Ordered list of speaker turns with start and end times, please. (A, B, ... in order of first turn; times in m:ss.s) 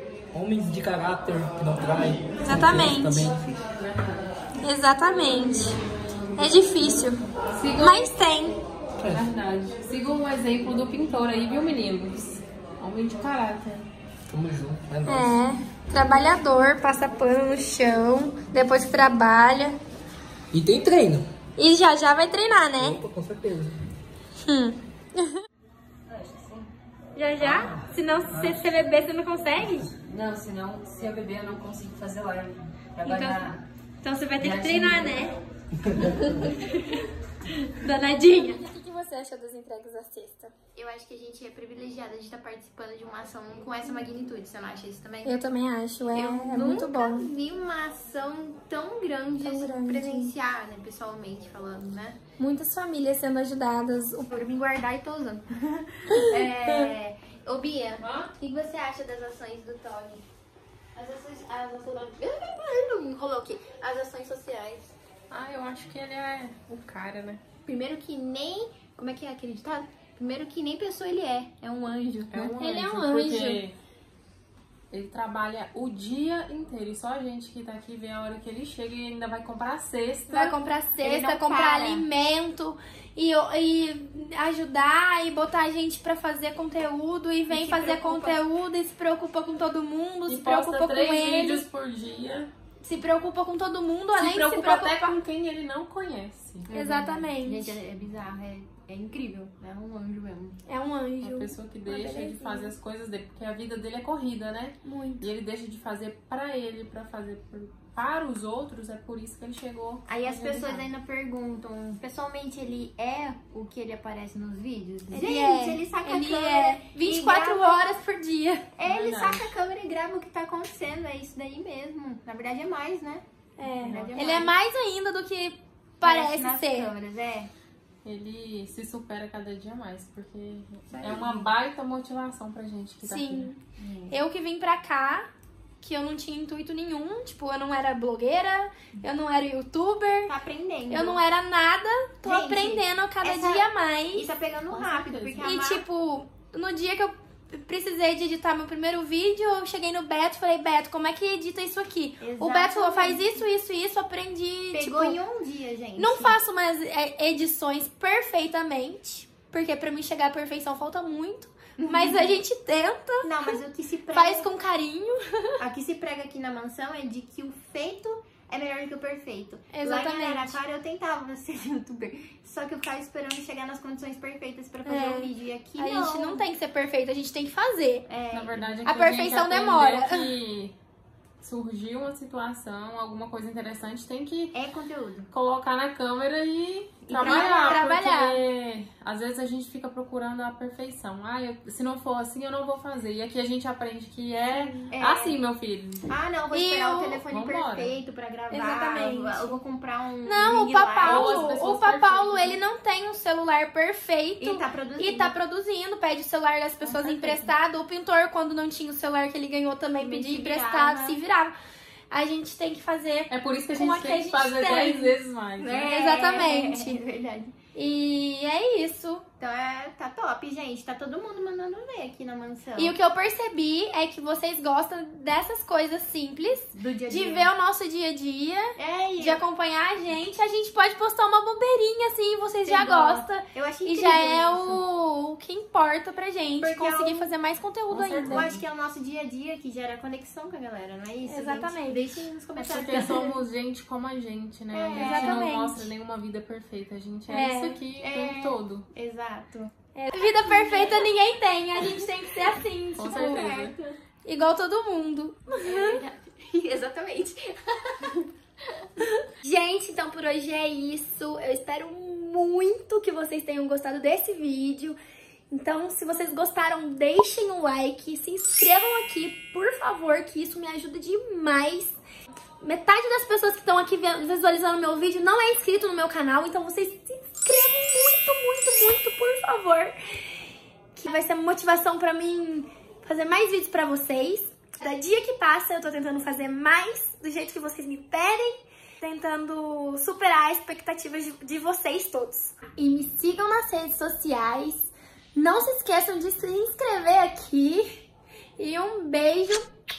0:00.3-0:03.7 A
0:02.4-0:03.3 B
0:03.8-0:04.3 C
0:04.6-0:05.8 B
0:06.4-0:07.2 B
0:07.5-0:08.1 C
0:07.8-0:08.6 B
0:09.0-0:09.2 A
0:09.1-0:13.9 C
0:14.3-0:15.3 A
0:15.0-0:19.8 B
0:20.5-0:21.3 A
0:21.6-0:23.0 B
0:22.7-0:23.8 A
0:24.4-0:25.4 B
0:26.1-0:26.7 D
0:27.2-0:29.9 B
0:30.0-0:33.6 D
0:33.0-0:33.5 B
0:34.0-0:35.4 B
0:34.4-0:35.2 D
0:35.8-0:36.3 A
0:36.2-0:37.0 B
0:37.6-0:40.5 B
0:40.7-0:45.4 E
0:45.2-0:47.3 B
0:46.1-0:52.2 E
0:49.4-0:50.3 B
0:52.4-0:54.3 B
0:54.3-1:00.3 E
1:00.9-1:04.9 E
1:05.3-1:07.4 C
1:07.6-1:12.5 E
1:12.3-1:13.8 C
1:12.6-1:13.6 B
1:14.9-1:20.6 C
1:20.3-1:31.6 B
1:21.0-1:22.0 E
1:27.5-1:28.4 E
1:30.3-1:32.5 C
1:32.8-1:35.1 B
1:34.1-1:36.7 C
1:36.7-1:40.6 E
1:36.7-1:37.8 B
1:40.7-1:42.7 B
1:41.2-1:50.9 C
1:44.8-1:45.3 B
1:50.1-1:57.9 E
1:55.1-1:58.6 B
1:58.8-2:04.5 E
1:58.8-1:59.6 C
2:03.6-2:06.9 B
2:03.8-2:04.3 C
2:06.0-2:07.5 E
2:08.0-2:13.5 C
2:10.9-2:11.5 E
2:13.0-2:13.6 B
2:13.8-2:14.2 E
2:14.1-2:15.3 B
2:15.8-2:20.3 B
2:20.3-2:21.2 E
2:20.9-2:24.2 B
2:22.2-2:25.8 E
2:24.7-2:25.4 C
2:25.4-2:35.2 B
2:32.2-2:33.4 E
2:34.7-2:36.4 E
2:36.0-2:43.6 B
2:41.8-2:42.4 E
2:43.2-2:44.5 E
2:44.1-2:45.6 B
2:45.6-2:56.4 E
2:49.7-2:50.6 B
2:54.8-2:58.1 B
2:58.1-2:58.8 E
2:58.3-3:00.7 C
2:58.8-3:00.2 B
3:01.4-3:04.5 C
3:04.5-3:05.3 E
3:05.3-3:16.1 C
3:07.0-3:07.9 E
3:07.2-3:08.4 B
3:14.5-3:14.9 B
3:14.9-3:15.4 E
3:16.1-3:21.4 E
3:16.5-3:17.2 B
3:17.2-3:17.9 C
3:18.5-3:19.6 B
3:20.2-3:31.5 B
3:21.0-3:22.6 C
3:24.4-3:25.3 E
3:26.9-3:27.5 C
3:30.0-3:31.2 E
3:32.1-3:35.1 B
3:33.3-3:36.2 C
3:35.6-3:37.5 E
3:35.9-3:37.0 B
3:37.7-3:39.2 B
3:39.4-3:42.9 E
3:42.8-3:58.5 B
3:46.7-3:47.5 E
3:48.8-3:49.4 E
3:52.6-3:54.8 E
3:56.6-3:57.3 E
3:57.9-3:58.6 C
3:58.2-4:03.4 E
4:01.2-4:02.2 B
4:02.5-4:08.9 C
4:04.7-4:05.5 E
4:04.9-4:05.9 B
4:07.3-4:07.8 B
4:08.0-4:09.7 E
4:09.9-4:13.6 B
4:10.4-4:11.1 E
4:13.0-4:13.8 C
4:13.0-4:14.0 E
4:14.2-4:16.0 B
4:15.6-4:18.3 E
4:19.4-4:25.0 B
4:25.5-4:32.0 B
4:32.6-4:40.0 B
4:41.0-4:57.9 B
4:58.6-4:59.7 B